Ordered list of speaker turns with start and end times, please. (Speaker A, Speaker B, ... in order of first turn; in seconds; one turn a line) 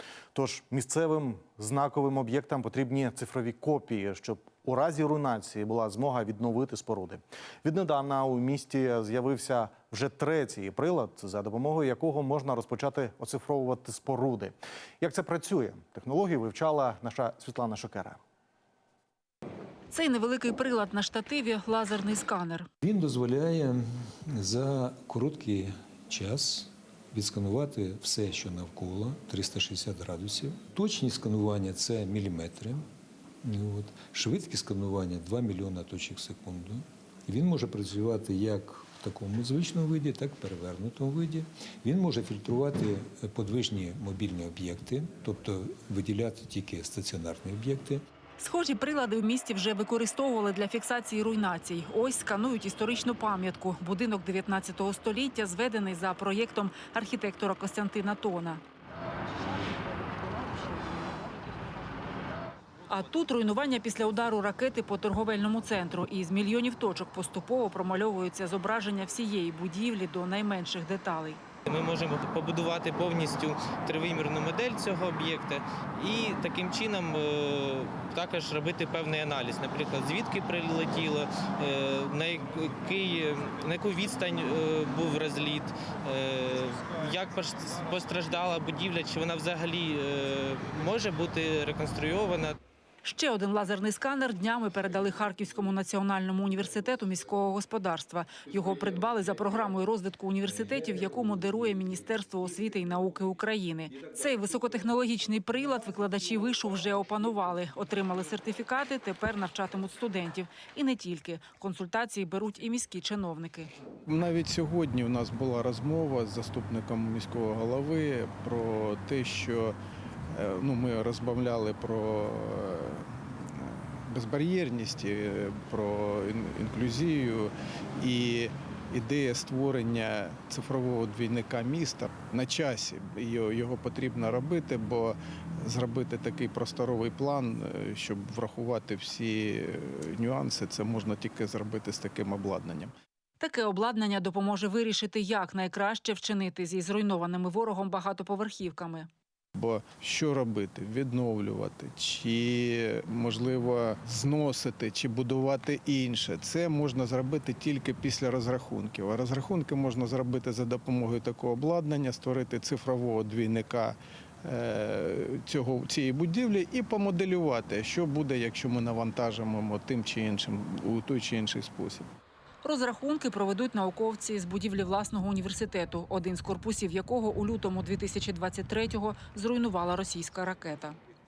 Speaker A: 0.3-18.2
Speaker B: 19.9-22.7
Speaker C: 22.8-32.8
Speaker C: 33.4-48.0
Speaker B: 48.4-58.6
Speaker B: 62.9-71.4
Speaker D: 71.7-92.5
Speaker B: 93.0-113.7
Speaker E: 114.0-119.8
Speaker E: 120.3-142.9
Speaker B: 143.4-149.1
Speaker E: 149.5-172.1
Speaker B: 172.6-181.0